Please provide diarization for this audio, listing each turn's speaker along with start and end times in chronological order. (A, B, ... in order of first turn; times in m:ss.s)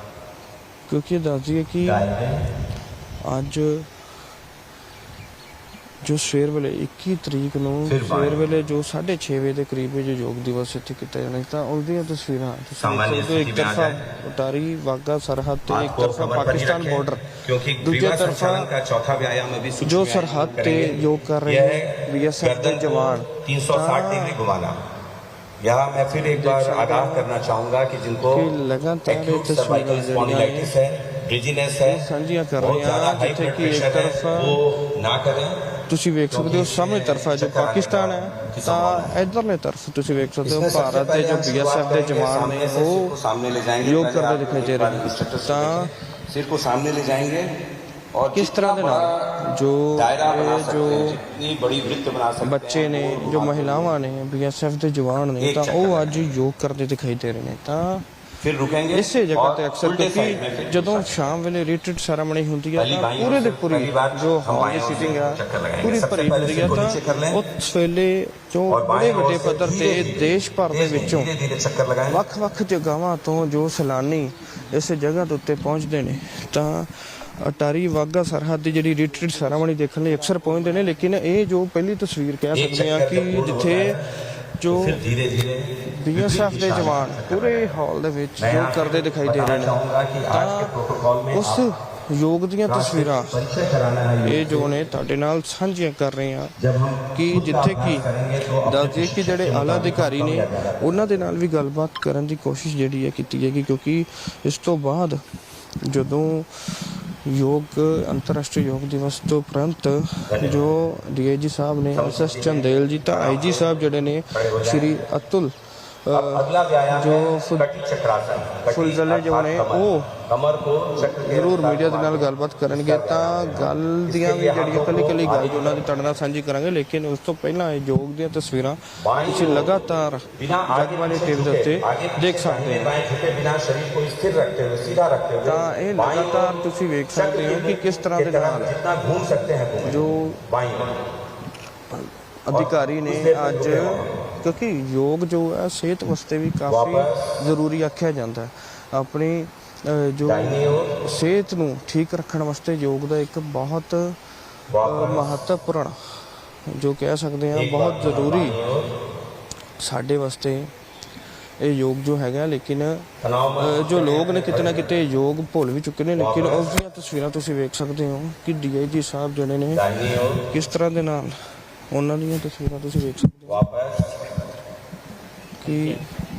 0:00.9-0:02.0 A
0:01.8-0:02.4 B
0:03.2-0:03.9 A
0:06.0-0:18.7 A
0:07.8-0:08.6 B
0:12.8-0:14.0 B
0:15.7-0:24.8 B
0:19.8-0:24.4 A
0:25.6-0:28.5 B
0:26.0-0:27.3 A
0:28.3-0:30.7 A
0:29.0-0:32.1 B
0:31.8-0:34.6 A
0:32.6-0:35.6 B
0:35.9-0:43.1 A
0:36.3-0:39.1 B
0:40.4-0:47.5 B
0:43.8-0:45.9 A
0:48.1-0:49.4 B
0:48.3-0:51.2 A
0:49.9-0:53.9 B
0:52.4-0:58.0 A
0:55.4-0:56.3 B
0:58.4-1:01.4 B
0:58.9-1:11.3 A
1:02.8-1:07.4 B
1:08.7-1:12.2 B
1:12.1-1:24.0 A
1:22.5-1:24.1 B
1:24.6-1:25.0 A
1:24.6-1:27.7 B
1:25.9-1:29.8 A
1:28.4-1:31.6 B
1:30.3-1:30.7 A
1:31.3-1:33.4 A
1:32.6-1:34.7 B
1:34.2-1:36.5 A
1:36.6-1:41.1 B
1:37.1-1:38.1 A
1:38.6-1:45.2 A
1:45.8-1:55.5 A
1:50.3-1:50.6 B
1:51.9-1:55.0 B
1:56.0-1:57.7 A
1:56.1-2:06.1 B
1:58.7-2:00.1 A
2:01.0-2:12.9 A
2:09.0-2:09.7 B
2:10.4-2:21.0 B
2:15.4-2:18.8 A
2:19.8-2:20.4 A
2:21.9-2:34.2 A
2:22.5-2:24.2 B
2:26.7-2:27.4 B
2:30.2-2:31.0 B
2:34.7-2:35.4 B
2:34.8-2:38.6 A
2:37.5-2:38.9 B
2:39.8-2:40.7 A
2:41.6-2:49.8 A
2:43.2-2:44.9 B
2:46.2-2:46.7 B
2:49.7-2:50.4 B
2:50.4-2:51.4 A
2:51.9-2:53.6 A
2:53.4-2:54.2 B
2:55.6-2:56.1 A